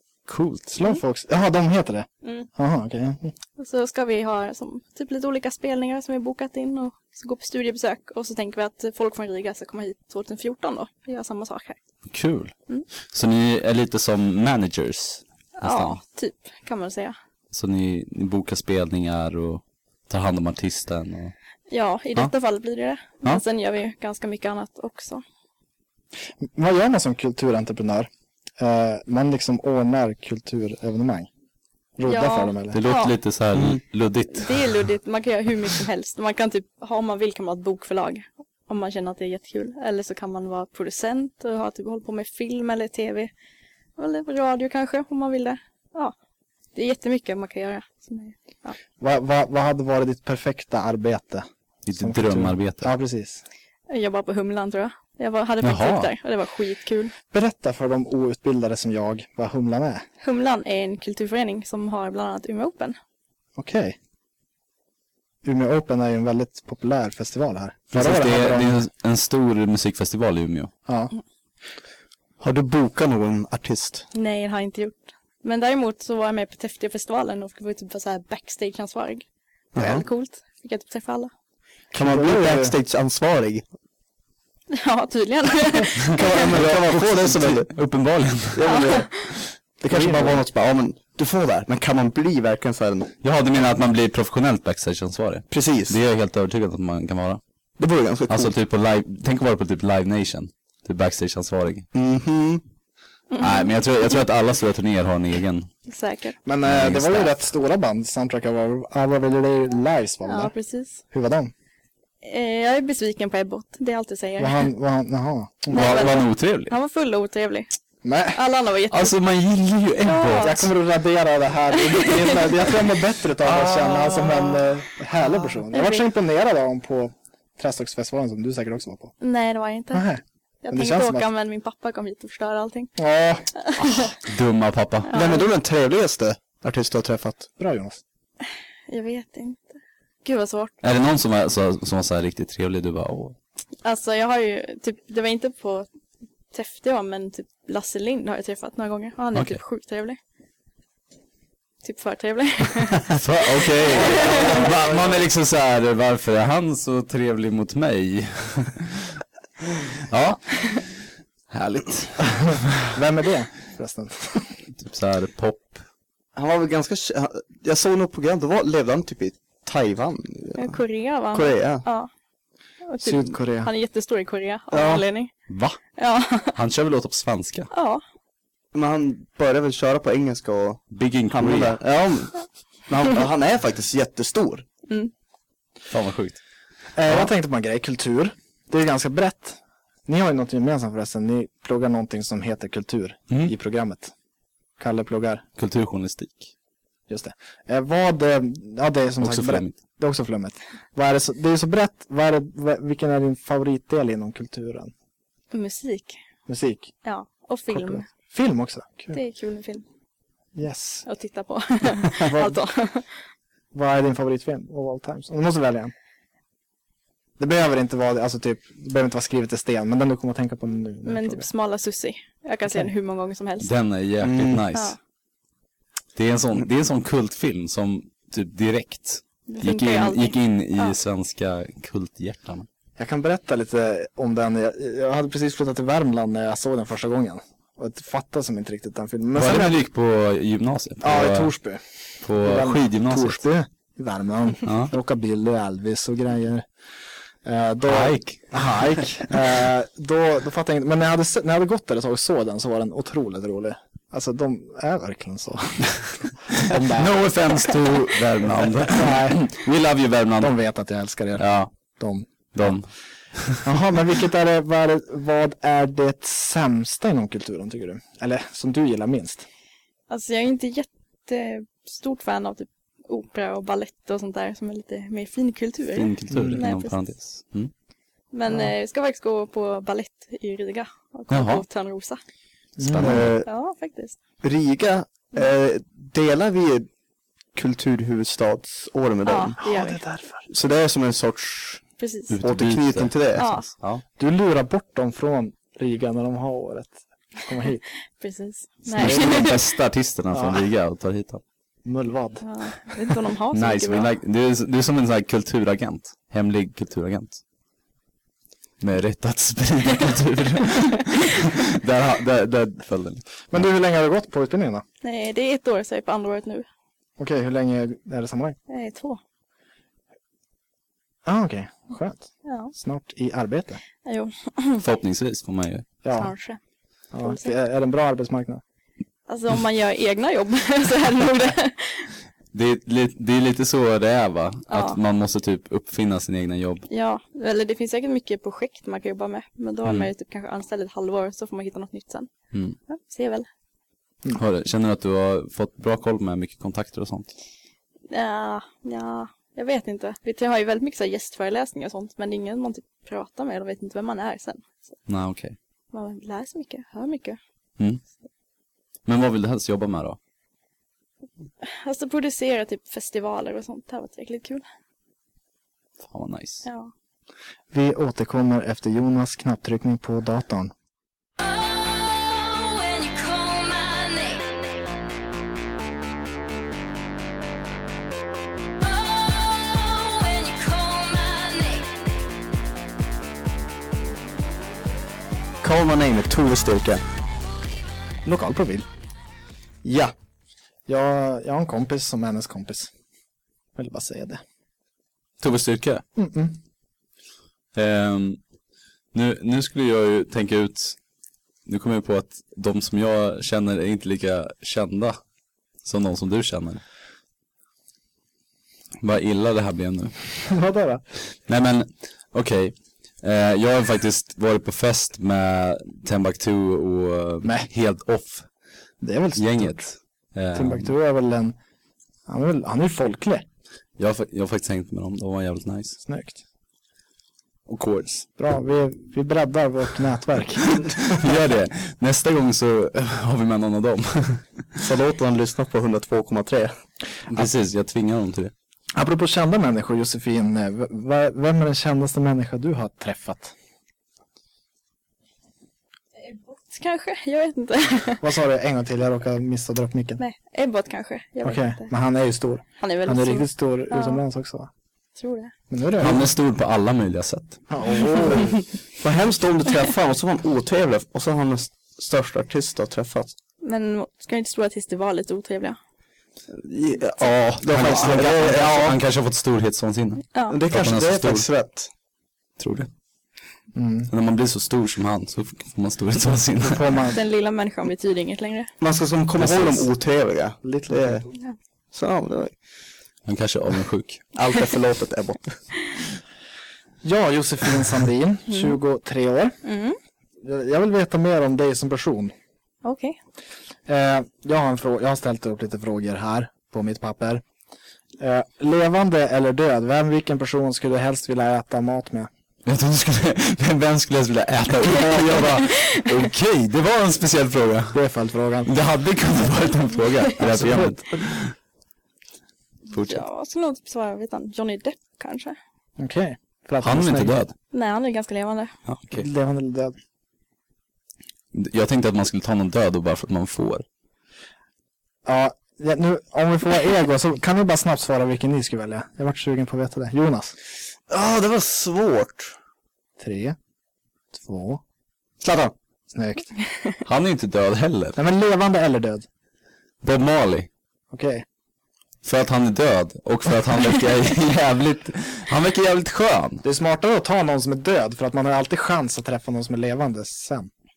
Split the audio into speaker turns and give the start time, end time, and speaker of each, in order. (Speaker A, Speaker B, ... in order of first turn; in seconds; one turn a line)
Speaker A: 0.3-0.7
Speaker B: 0.7-3.3
Speaker C: 2.2-2.5
Speaker C: 3.6-11.8
Speaker A: 12.1-12.5
Speaker A: 13.1-16.0
Speaker C: 15.6-17.1
Speaker A: 17.5-21.3
Speaker C: 21.7-25.2
Speaker B: 26.4-31.3
Speaker B: 32.0-32.8
Speaker C: 32.0-33.1
Speaker A: 32.7-34.7
Speaker C: 34.3-43.3
Speaker C: 44.0-46.1
Speaker C: 46.7-48.8
Speaker B: 49.0-51.5
Speaker A: 51.9-52.9
Speaker B: 52.0-53.4
Speaker C: 53.9-57.1
Speaker A: 55.6-56.1
Speaker B: 57.3-60.0
Speaker C: 60.2-63.0
Speaker B: 63.6-64.0
Speaker B: 65.4-68.8
Speaker A: 67.9-70.7
Speaker B: 70.8-71.1
Speaker D: 72.4-74.0
Speaker C: 74.1-79.2
Speaker D: 79.7-80.0
Speaker C: 79.8-81.3
Speaker B: 81.9-82.7
Speaker D: 81.9-83.6
Speaker C: 84.7-86.4
Speaker A: 86.0-88.8
Speaker D: 86.1-87.7
Speaker D: 88.5-89.1
Speaker C: 88.7-89.3
Speaker D: 89.8-93.1
Speaker B: 89.8-90.4
Speaker A: 93.2-97.4
Speaker D: 95.5-96.0
Speaker D: 97.8-98.5
Speaker A: 98.3-101.9
Speaker D: 101.9-102.6
Speaker C: 103.3-103.7
Speaker A: 103.4-105.7
Speaker C: 105.9-106.3
Speaker B: 106.5-110.5
Speaker A: 106.6-107.4
Speaker C: 110.2-111.0
Speaker B: 111.1-111.5
Speaker C: 112.2-114.7
Speaker B: 114.4-116.2
Speaker C: 115.7-117.7
Speaker A: 115.7-116.7
Speaker B: 118.0-118.4
Speaker C: 118.3-119.2
Speaker A: 118.9-120.7
Speaker C: 120.0-120.6
Speaker B: 120.4-129.1
Speaker C: 121.8-122.6
Speaker A: 123.5-123.9
Speaker C: 125.7-126.0
Speaker C: 129.2-130.1
Speaker B: 129.9-131.3
Speaker C: 130.6-132.9
Speaker B: 133.0-133.5
Speaker C: 133.6-134.1
Speaker A: 134.2-135.1
Speaker C: 135.1-135.5
Speaker D: 135.1-137.5
Speaker B: 137.6-138.0
Speaker C: 138.9-139.7
Speaker C: 140.2-140.8
Speaker A: 140.8-143.3
Speaker C: 143.8-145.9
Speaker C: 146.5-150.2
Speaker A: 149.3-149.6
Speaker C: 151.8-154.6
Speaker A: 153.1-159.2
Speaker D: 153.9-155.2
Speaker A: 160.0-160.9
Speaker A: 161.5-162.8
Speaker B: 162.4-164.5
Speaker A: 164.8-165.8
Speaker D: 166.3-170.8
Speaker C: 170.6-172.1
Speaker D: 171.3-171.8
Speaker C: 172.8-175.3
Speaker B: 173.0-173.7
Speaker D: 174.7-175.0
Speaker A: 175.5-175.8
Speaker C: 176.0-176.6
Speaker A: 176.5-177.7
Speaker C: 177.7-178.0
Speaker D: 178.7-184.6
Speaker A: 180.9-181.8
Speaker A: 185.9-186.4
Speaker B: 186.9-194.1
Speaker B: 194.8-195.4
Speaker A: 195.6-196.5
Speaker B: 197.1-204.9
Speaker A: 199.2-199.7
Speaker C: 205.5-206.2
Speaker B: 206.5-206.9
Speaker C: 207.0-208.0
Speaker B: 207.7-209.2
Speaker C: 209.1-209.8
Speaker B: 210.5-211.0
Speaker C: 211.0-213.1
Speaker B: 212.1-212.6
Speaker B: 213.7-215.9
Speaker B: 217.4-221.5
Speaker C: 221.0-223.7
Speaker A: 223.6-224.9
Speaker D: 224.2-224.6
Speaker A: 226.2-232.7
Speaker C: 229.5-230.9
Speaker B: 233.0-239.8
Speaker A: 239.3-241.5
Speaker B: 241.0-241.8
Speaker A: 242.2-243.4
Speaker B: 242.4-246.7
Speaker A: 244.6-244.9
Speaker B: 247.4-257.3
Speaker A: 247.8-248.7
Speaker A: 256.6-260.5
Speaker B: 258.8-259.5
Speaker B: 260.4-261.4
Speaker A: 261.4-261.7
Speaker B: 261.9-262.7
Speaker A: 262.5-263.6
Speaker B: 263.6-269.4
Speaker C: 270.1-277.0
Speaker A: 275.9-277.7
Speaker B: 276.3-276.6
Speaker C: 278.3-282.2
Speaker A: 281.3-281.6
Speaker B: 282.8-283.3
Speaker A: 282.8-283.3
Speaker D: 283.0-283.5
Speaker C: 283.4-284.1
Speaker D: 284.4-286.9
Speaker D: 287.5-289.6
Speaker C: 289.2-290.0
Speaker B: 289.6-290.5
Speaker D: 290.5-291.8
Speaker C: 292.0-292.4
Speaker A: 292.3-294.0
Speaker D: 292.4-293.5
Speaker C: 293.4-293.7
Speaker B: 294.2-297.8
Speaker C: 298.2-299.6
Speaker B: 298.9-299.6
Speaker A: 298.9-301.4
Speaker B: 300.3-300.7
Speaker B: 301.8-302.4
Speaker C: 302.4-304.1
Speaker A: 303.5-307.4
Speaker A: 308.8-313.6
Speaker B: 313.5-314.8
Speaker C: 315.0-316.6
Speaker B: 317.2-318.6
Speaker C: 318.7-319.2
Speaker B: 321.2-323.8
Speaker C: 322.4-322.7
Speaker C: 324.0-324.8
Speaker A: 324.8-325.9
Speaker B: 326.0-326.3
Speaker C: 326.1-326.6
Speaker B: 327.1-328.6
Speaker C: 327.2-327.5
Speaker C: 329.3-332.1
Speaker A: 332.5-336.9
Speaker C: 334.7-335.0
Speaker C: 336.9-342.3
Speaker C: 342.9-343.5
Speaker A: 344.3-347.3
Speaker C: 348.1-354.7
Speaker A: 355.1-355.6
Speaker C: 355.9-357.4
Speaker A: 359.1-360.2
Speaker C: 361.6-364.6
Speaker A: 366.0-366.6
Speaker C: 366.6-366.9
Speaker B: 367.7-370.7
Speaker C: 372.4-374.4
Speaker C: 379.9-381.8
Speaker D: 385.6-387.0
Speaker B: 388.2-388.9
Speaker D: 389.8-390.1
Speaker B: 390.9-392.9
Speaker B: 393.8-394.4
Speaker A: 395.4-396.0
Speaker B: 396.1-396.6
Speaker A: 397.7-398.4
Speaker A: 399.1-400.9
Speaker A: 401.6-405.2
Speaker A: 405.8-406.8
Speaker A: 409.0-410.4
Speaker B: 410.4-411.0
Speaker A: 411.5-418.5
Speaker B: 419.0-419.8
Speaker A: 419.4-420.9
Speaker B: 420.5-421.6
Speaker B: 422.3-423.4
Speaker A: 424.0-426.0
Speaker B: 426.0-426.4
Speaker A: 427.7-428.3
Speaker B: 428.4-431.1
Speaker A: 431.0-434.6
Speaker D: 434.8-436.7
Speaker A: 437.3-438.5
Speaker B: 438.9-443.5
Speaker C: 446.2-448.2
Speaker B: 448.2-450.2
Speaker C: 450.2-451.9
Speaker B: 451.4-454.7
Speaker C: 452.8-454.2
Speaker C: 455.2-455.5
Speaker B: 455.7-456.2
Speaker A: 456.0-457.6
Speaker B: 457.7-458.6
Speaker D: 459.0-463.3
Speaker C: 463.6-465.8
Speaker D: 466.5-469.0
Speaker A: 467.6-471.4
Speaker D: 470.5-471.9
Speaker A: 472.6-472.9
Speaker B: 473.7-474.1
Speaker A: 474.1-476.9
Speaker B: 476.6-477.2
Speaker C: 477.1-478.7
Speaker D: 478.8-481.2
Speaker A: 479.4-479.9
Speaker B: 480.6-481.3
Speaker D: 481.9-482.5
Speaker A: 483.2-484.2
Speaker D: 484.3-485.6
Speaker B: 487.0-489.6
Speaker C: 488.5-488.8
Speaker C: 489.6-490.0
Speaker B: 490.4-492.3
Speaker C: 492.8-493.2
Speaker B: 493.9-497.4
Speaker B: 498.2-502.3
Speaker A: 502.6-508.0
Speaker B: 507.9-508.7
Speaker A: 508.6-511.5
Speaker B: 510.4-511.0
Speaker A: 512.9-513.2
Speaker C: 512.9-515.6
Speaker B: 516.0-517.4
Speaker A: 516.8-517.5
Speaker C: 517.7-518.7
Speaker A: 518.9-519.3
Speaker B: 519.1-519.9
Speaker A: 521.5-523.8
Speaker B: 525.2-530.5
Speaker D: 531.1-532.5
Speaker B: 533.2-533.5
Speaker B: 534.3-534.8
Speaker D: 535.4-535.7
Speaker B: 536.1-536.5
Speaker A: 537.0-538.2
Speaker B: 538.1-539.2
Speaker A: 540.0-540.7
Speaker B: 541.1-541.4
Speaker A: 542.2-546.6
Speaker B: 546.6-550.7